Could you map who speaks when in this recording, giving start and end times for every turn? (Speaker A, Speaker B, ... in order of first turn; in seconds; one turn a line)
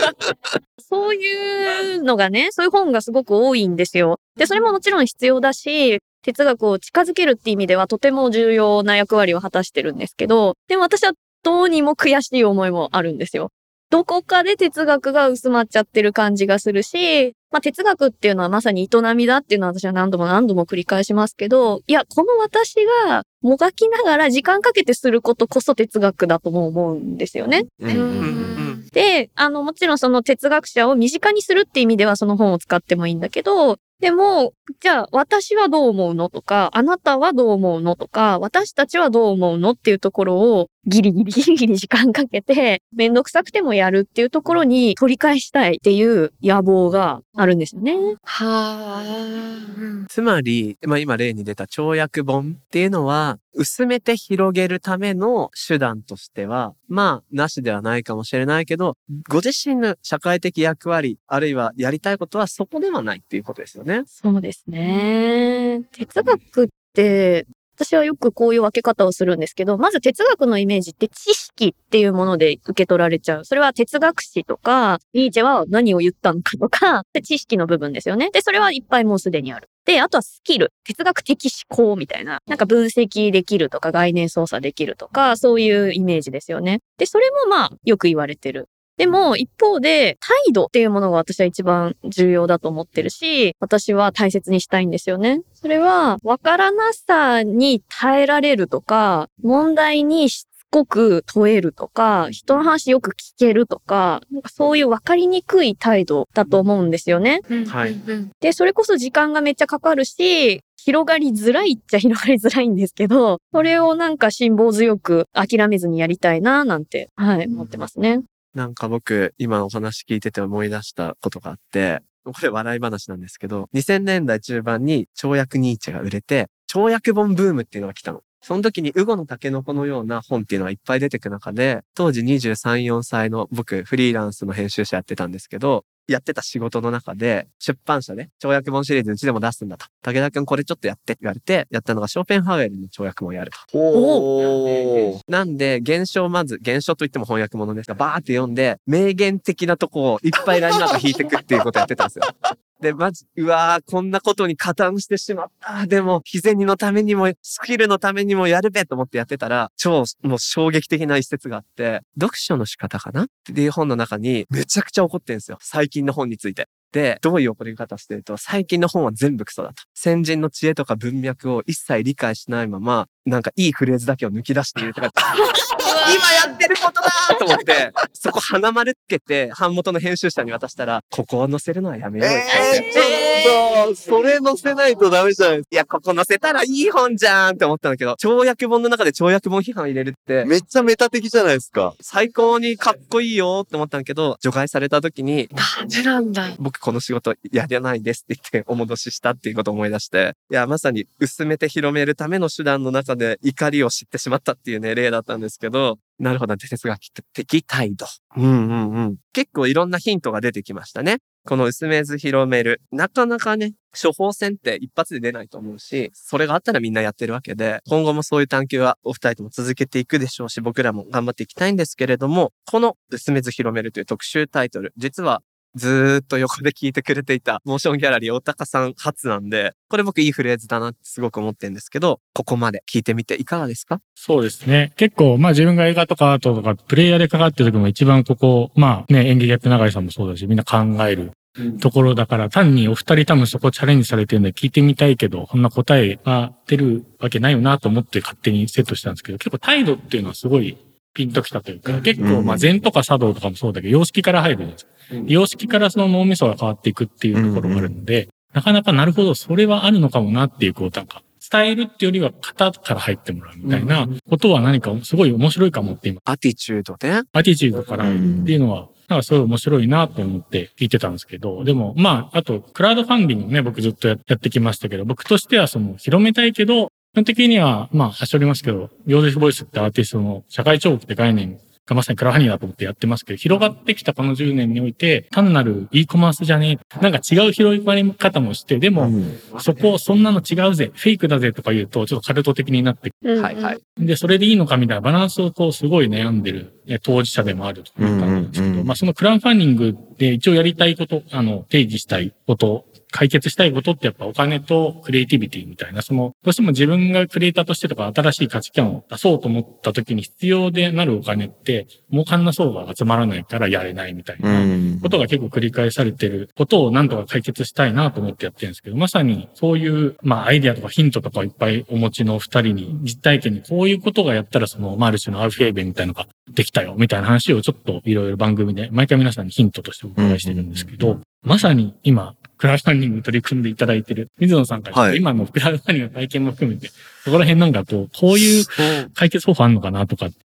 Speaker A: 0.8-27.9
Speaker B: 27.8-28.6
Speaker C: 27.9-28.7
Speaker D: 28.2-28.8
Speaker A: 28.9-48.1
Speaker C: 48.3-50.1
Speaker D: 50.1-64.1
Speaker A: 64.2-107.5
Speaker C: 107.5-108.3
Speaker D: 107.7-108.0
Speaker A: 108.4-118.2
Speaker D: 118.5-143.6
Speaker B: 143.7-145.2
Speaker A: 143.9-144.2
Speaker D: 145.2-175.4
Speaker D: 176.0-183.5
Speaker B: 182.2-185.6
Speaker D: 185.7-190.5
Speaker B: 190.4-191.9
Speaker D: 192.0-195.5
Speaker C: 195.6-196.6
Speaker D: 196.6-234.0
Speaker E: 234.2-266.2
Speaker B: 252.2-252.7
Speaker B: 257.3-257.9
Speaker D: 266.3-267.3
Speaker E: 267.3-293.2
Speaker B: 268.0-268.6
Speaker B: 289.0-289.2
Speaker A: 293.2-293.7
Speaker D: 293.4-293.8
Speaker E: 293.9-340.3
Speaker B: 298.0-298.9
Speaker B: 314.4-315.2
Speaker B: 330.2-331.2
Speaker B: 334.9-335.2
Speaker B: 338.3-339.1